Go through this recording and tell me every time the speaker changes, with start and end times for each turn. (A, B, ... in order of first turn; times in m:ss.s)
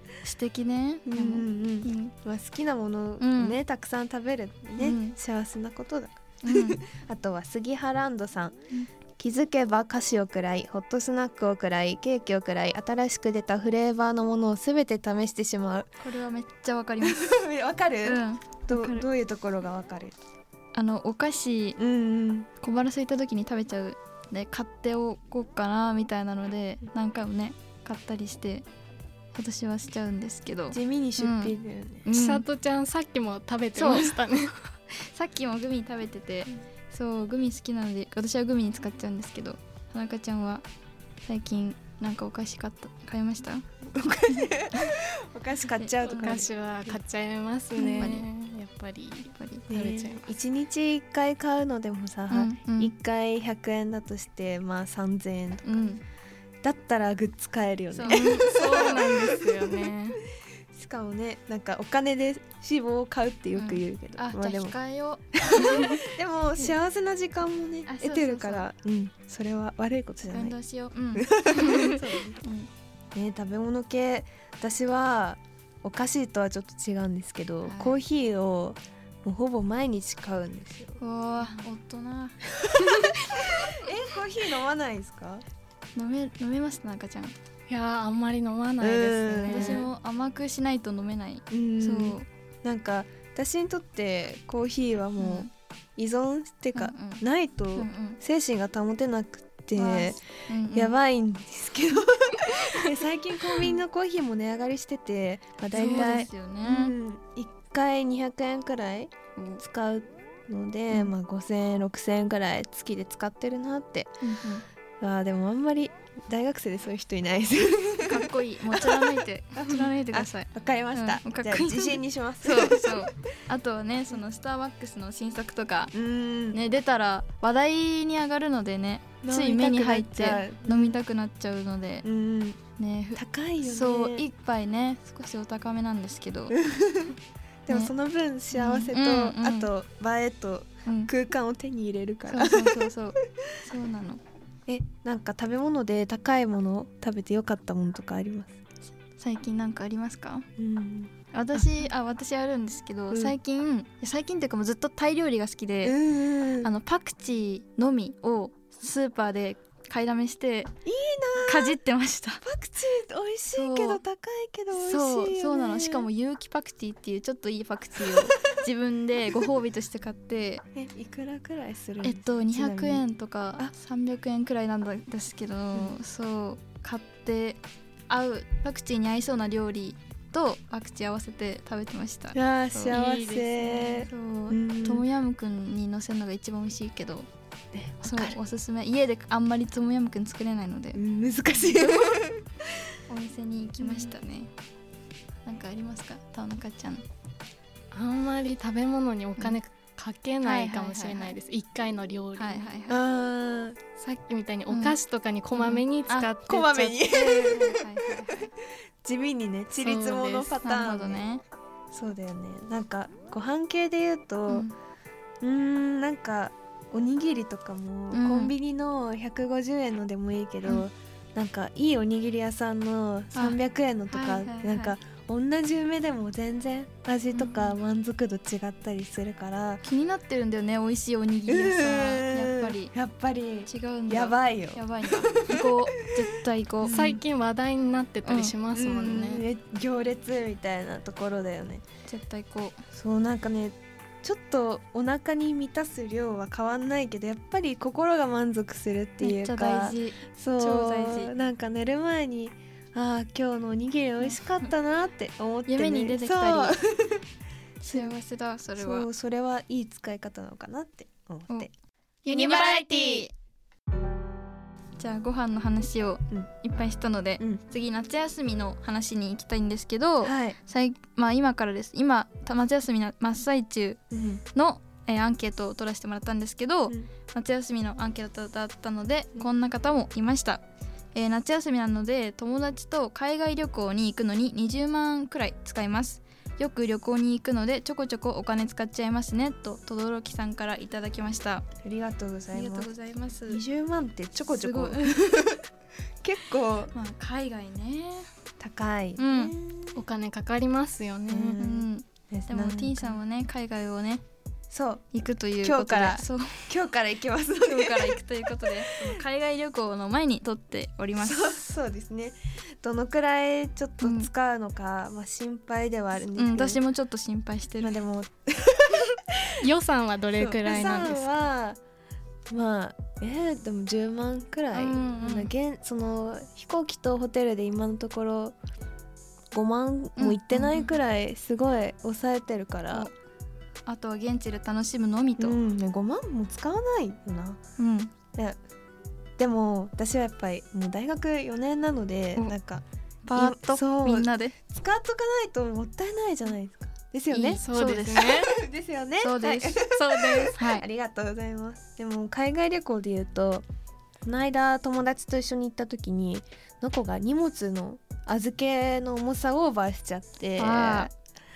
0:00.2-0:02.1 A
0:01.1-0:08.6 B
0:03.2-0:03.6 A
0:04.8-0:05.2 A
0:06.4-0:06.8 A
0:09.2-0:15.9 B
0:16.0-0:17.2 A
0:17.0-0:20.2 B
0:18.0-0:19.1 A
0:20.7-0:21.8 A
0:21.8-0:22.5 B
0:22.6-0:28.7 A
0:29.3-0:31.5 A
0:30.7-0:32.1 B
0:32.0-0:32.5 A
0:32.1-0:34.6 C
0:33.8-0:34.2 A
0:34.9-0:40.6 A
0:41.2-0:43.7 A
0:43.9-0:46.5 B
0:45.7-0:46.5 A
0:46.1-0:50.3 C
0:47.8-0:48.3 A
0:49.3-0:49.7 A
0:49.7-0:55.9 B
0:52.3-0:52.9 A
0:55.6-0:56.0 A
0:56.6-0:59.5 B
0:57.9-0:58.4 A
0:58.1-1:00.2 C
1:00.7-1:04.8 B
1:03.5-1:06.0 A
1:05.4-1:10.6 B
1:07.9-1:08.7 A
1:10.3-1:12.7 A
1:11.1-1:12.4 B
1:13.1-1:21.0 B
1:17.7-1:18.0 A
1:21.0-1:23.7 A
1:21.4-1:21.7 C
1:22.6-1:25.4 B
1:26.0-1:27.4 A
1:27.7-1:29.9 C
1:28.8-1:29.9 B
1:29.5-1:32.3 A
1:31.5-1:40.2 B
1:35.2-1:35.5 A
1:36.8-1:37.2 A
1:37.8-1:38.2 A
1:39.8-1:41.0 A
1:40.7-1:54.2 B
1:45.7-1:47.0 A
1:45.8-1:46.1 C
1:49.4-1:49.6 A
1:54.2-1:54.6 A
1:55.0-2:03.1 B
1:58.0-2:05.9 A
2:05.9-2:06.6 B
2:06.5-2:12.1 A
2:09.2-2:11.0 B
2:12.0-2:12.6 B
2:12.8-2:16.6 A
2:13.2-2:14.3 B
2:16.5-2:17.2 B
2:17.7-2:22.9 B
2:18.5-2:19.7 A
2:20.9-2:21.1 A
2:22.3-2:24.2 A
2:24.7-2:28.6 B
2:29.2-2:30.5 A
2:30.6-2:31.7 B
2:31.3-2:36.0 A
2:33.1-2:33.4 B
2:35.8-2:36.7 B
2:36.6-2:40.7 A
2:40.8-2:41.8 B
2:41.4-2:42.4 A
2:42.4-2:46.1 B
2:43.5-2:44.0 A
2:44.7-2:50.6 A
2:48.0-2:48.3 B
2:50.7-2:53.1 B
2:52.0-3:03.0 A
2:55.7-2:56.0 B
3:02.3-3:05.0 B
3:02.9-3:03.7 C
3:03.7-3:07.3 A
3:07.7-3:08.4 B
3:08.0-3:11.0 A
3:10.9-3:12.4 B
3:11.6-3:12.2 A
3:13.1-3:14.5 A
3:13.8-3:14.1 B
3:15.4-3:17.0 A
3:17.9-3:22.7 C
3:20.4-3:21.4 A
3:22.4-3:23.0 A
3:22.9-3:23.8 B
3:24.0-3:27.4 C
3:24.7-3:25.0 A
3:25.5-3:26.3 A
3:26.5-3:27.8 B
3:27.4-3:28.5 A
3:29.0-3:31.3 B
3:29.8-3:30.6 C
3:30.6-3:31.4 A
3:31.9-3:34.7 B
3:34.5-3:34.8 A
3:35.4-3:49.8 B
3:38.1-3:38.5 A
3:44.1-3:45.0 A
3:47.3-3:47.8 A
3:49.8-3:52.9 A
3:51.5-3:55.7 B
3:53.7-3:57.1 A
3:56.8-3:57.2 B
3:56.8-3:59.5 C
3:58.2-3:58.6 A
3:58.7-4:01.8 B
4:02.1-4:02.8 A
4:02.9-4:17.2 B
4:09.2-4:11.3 A
4:14.2-4:14.7 A
4:15.7-4:16.8 A
4:17.8-4:19.1 A
4:17.8-4:18.1 B
4:18.8-4:21.7 B
4:22.2-4:23.3 C
4:25.0-4:34.0 A
4:30.2-4:30.6 B
4:34.1-4:34.4 B
4:34.5-4:40.6 A
4:41.1-4:51.6 A
4:51.8-4:52.9 B
4:52.5-4:53.6 A
4:53.5-4:55.6 B
4:54.4-4:55.2 A
4:56.2-4:56.9 B
4:56.9-4:58.3 A
4:58.6-5:00.0 B
4:59.2-4:59.5 A
5:00.0-5:01.6 C
5:01.3-5:03.2 B
5:01.6-5:04.2 A
5:04.7-5:05.1 B
5:05.1-5:06.7 A
5:05.6-5:09.2 B
5:07.6-5:11.6 A
5:11.2-5:16.8 B
5:14.0-5:14.3 A
5:16.4-5:18.0 A
5:17.8-5:19.5 B
5:19.6-5:21.3 C
5:20.4-5:21.8 B
5:22.5-5:28.6 B
5:24.7-5:25.5 A
5:29.5-5:33.1 B
5:30.2-5:31.0 A
5:33.8-5:35.6 A
5:35.4-5:37.6 B
5:37.8-5:38.1 A
5:38.3-5:38.6 B
5:39.4-5:53.7 B
5:43.3-5:44.6 A
5:47.3-5:48.2 A
5:47.6-5:48.6 C
5:49.2-5:49.8 A
5:49.9-5:50.6 C
5:50.6-5:50.8 A
5:54.2-6:01.1 B
6:00.6-6:01.1 A